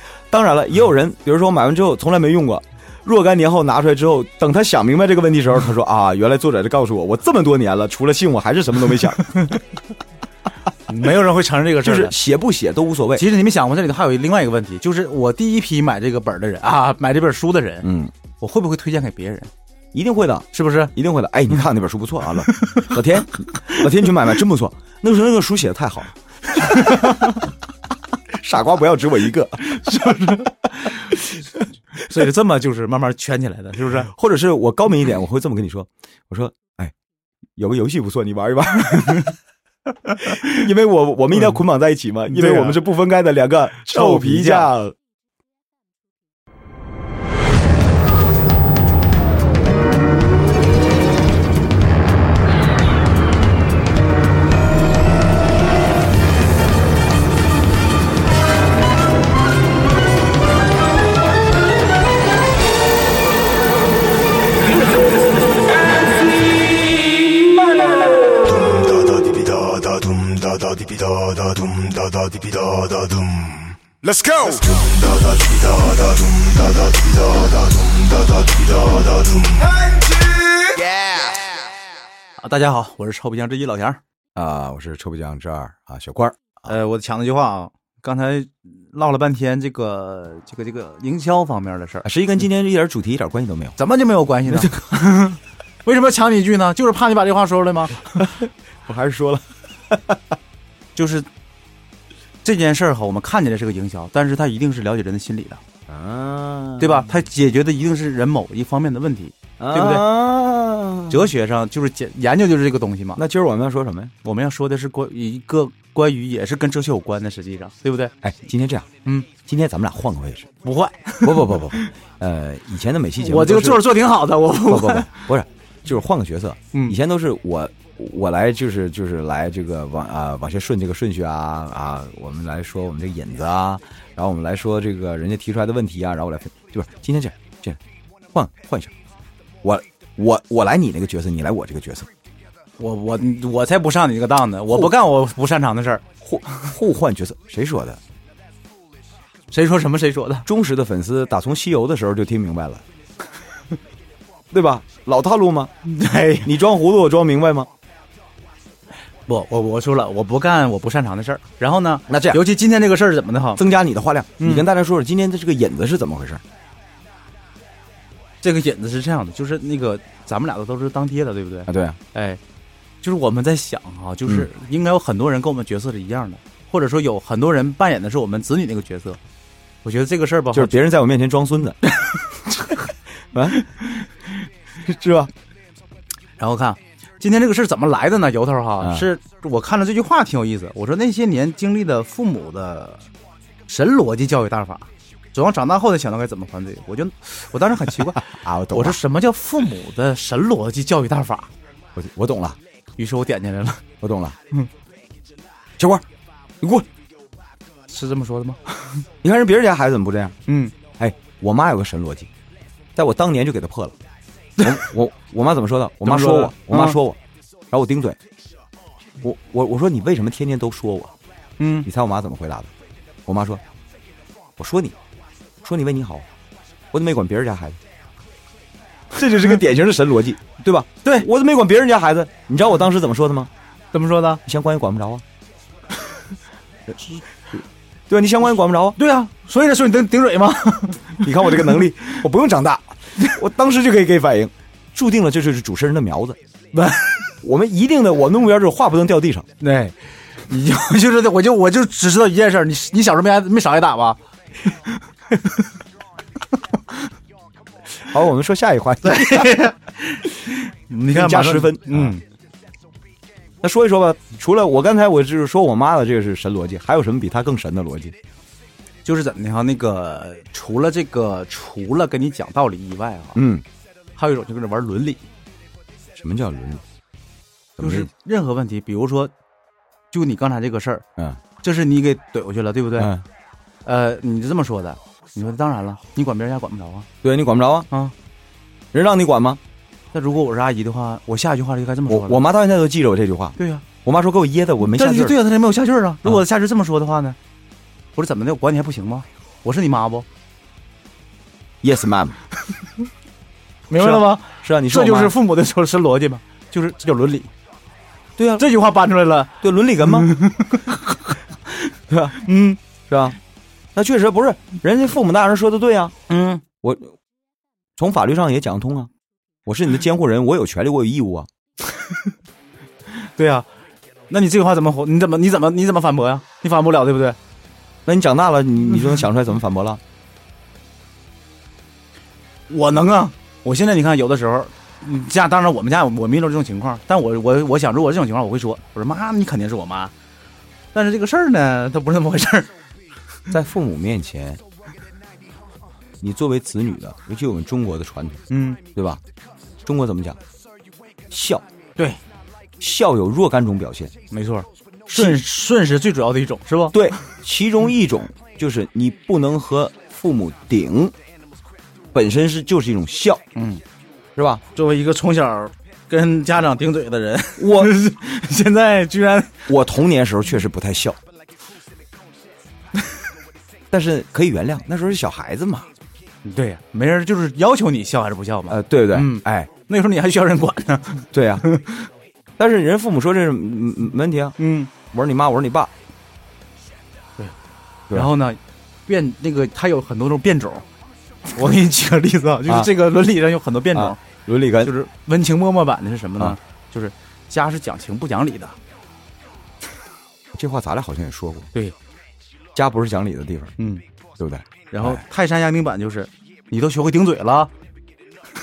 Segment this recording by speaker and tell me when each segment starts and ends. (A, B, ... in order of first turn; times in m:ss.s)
0:00.3-0:09.4 A
0:09.2-0:09.6 B
0:10.9-0:12.2 B
0:11.8-0:13.3 A
0:13.2-0:17.9 B
0:17.8-0:18.1 A
0:18.4-0:19.5 B
0:19.9-0:27.1 A
0:20.5-0:20.9 B
0:22.5-0:22.9 B
0:26.6-0:27.4 B
0:28.3-0:30.2 A
0:29.6-0:31.4 B
0:32.0-0:34.1 B
0:34.1-0:36.9 A
0:37.6-0:39.3 A
0:38.9-0:39.3 B
0:40.1-0:40.5 B
0:40.2-0:45.0 A
0:42.3-0:42.8 B
0:43.9-0:44.7 B
1:08.4-1:21.4 C
1:22.4-1:24.0 B
1:24.4-1:26.5 A
1:26.7-1:32.1 B
1:32.0-1:33.8 A
1:33.8-1:38.3 B
1:38.8-1:40.2 A
1:41.0-1:41.3 B
1:42.4-1:45.6 B
1:45.9-1:47.1 A
1:46.8-1:50.1 B
1:49.6-1:51.3 A
1:51.1-1:53.2 B
1:53.2-1:54.2 A
1:54.2-1:58.2 B
1:58.2-1:58.9 A
1:59.4-2:00.5 A
2:00.6-2:01.9 B
2:01.2-2:04.0 A
2:03.2-2:05.3 B
2:04.7-2:17.8 A
2:18.3-2:18.9 A
2:19.6-2:22.1 A
2:22.8-2:26.0 B
2:26.2-2:28.0 A
2:29.5-2:30.5 B
2:30.5-2:32.8 A
2:34.5-2:35.7 A
2:35.8-2:36.5 B
2:36.4-2:37.7 A
2:39.3-2:43.6 B
2:42.1-2:42.4 A
2:43.6-2:46.4 A
2:44.4-2:44.7 B
2:48.4-2:52.4 B
2:51.7-2:52.0 A
2:53.0-2:59.2 B
2:59.8-3:00.8 B
3:00.5-3:01.8 A
3:02.0-3:02.8 B
3:03.3-3:03.6 A
3:04.8-3:05.3 A
3:06.4-3:13.0 B
3:08.8-3:09.1 A
3:13.7-3:21.5 B
3:18.3-3:19.0 A
3:22.0-3:22.6 A
3:23.0-3:23.8 B
3:24.0-3:24.4 A
3:25.8-3:26.0 A
3:26.6-3:26.9 A
3:27.9-3:29.0 B
3:29.2-3:30.4 A
3:30.5-3:30.7 B
3:31.0-3:32.3 A
3:33.0-3:34.0 A
3:34.6-3:37.2 A
3:36.0-3:37.0 B
3:37.7-3:38.2 A
3:39.2-3:41.2 A
3:41.6-3:41.9 B
3:41.8-3:42.7 A
3:43.3-3:43.6 A
3:44.6-3:45.0 A
3:45.6-3:46.3 A
3:46.9-3:47.8 A
3:49.1-3:53.5 A
3:53.9-3:54.4 B
3:54.5-3:55.2 A
3:58.1-3:59.0 A
3:59.0-4:01.8 B
4:01.2-4:06.4 A
4:06.7-4:07.3 B
4:07.4-4:09.5 A
4:09.6-4:14.2 B
4:18.0-4:19.6 A
4:19.0-4:22.2 B
4:21.1-4:22.2 A
4:23.6-4:28.2 A
4:29.0-4:33.4 B
4:33.4-4:33.6 A
4:34.2-4:35.2 B
4:36.2-4:36.8 A
4:37.8-4:38.1 A
4:37.8-4:39.3 B
4:40.1-4:41.0 B
4:41.6-4:43.1 B
4:43.0-4:43.2 A
4:43.8-4:47.1 B
4:47.2-4:47.9 A
4:48.9-4:49.6 A
4:50.1-4:52.4 B
4:52.1-4:55.4 A
4:53.6-4:53.9 B
4:54.8-4:57.4 B
4:58.2-5:00.3 B
5:01.8-5:02.4 A
5:03.9-5:07.5 B
5:04.0-5:05.4 A
5:08.4-5:08.7 A
5:08.6-5:11.4 B
5:09.6-5:10.3 A
5:12.1-5:12.4 A
5:12.4-5:12.8 B
5:13.1-5:13.4 A
5:14.0-5:16.2 A
5:16.3-5:16.6 B
5:16.8-5:17.2 A
5:18.0-5:19.1 A
5:19.6-5:21.5 A
5:23.2-5:23.7 B
5:24.3-5:27.4 B
5:28.1-5:30.0 A
5:32.7-5:40.1 B
5:40.9-5:42.7 B
5:43.5-5:44.6 A
5:46.2-5:48.4 A
5:48.5-5:48.8 B
5:49.0-5:49.2 A
5:49.8-5:50.4 A
5:51.3-5:51.6 A
5:52.8-5:54.1 A
5:54.3-5:57.0 B
5:55.2-5:55.4 A
5:56.9-6:01.2 A
6:02.1-6:03.4 A
6:03.6-6:03.8 B
6:04.4-6:04.6 A
6:04.7-6:09.6 B
6:07.6-6:08.0 A
6:09.7-6:11.2 A
6:13.9-6:15.9 A
6:16.4-6:22.1 B
6:18.7-6:19.7 A
6:21.3-6:21.7 A
6:22.6-6:25.9 A
6:24.6-6:24.9 B
6:28.1-6:30.8 B
6:31.5-6:34.2 B
6:33.9-6:34.9 A
6:34.8-6:38.8 B
6:40.5-6:41.7 A
6:42.8-6:43.8 A
6:43.8-6:44.0 B
6:44.4-6:45.2 A
6:44.9-6:47.7 B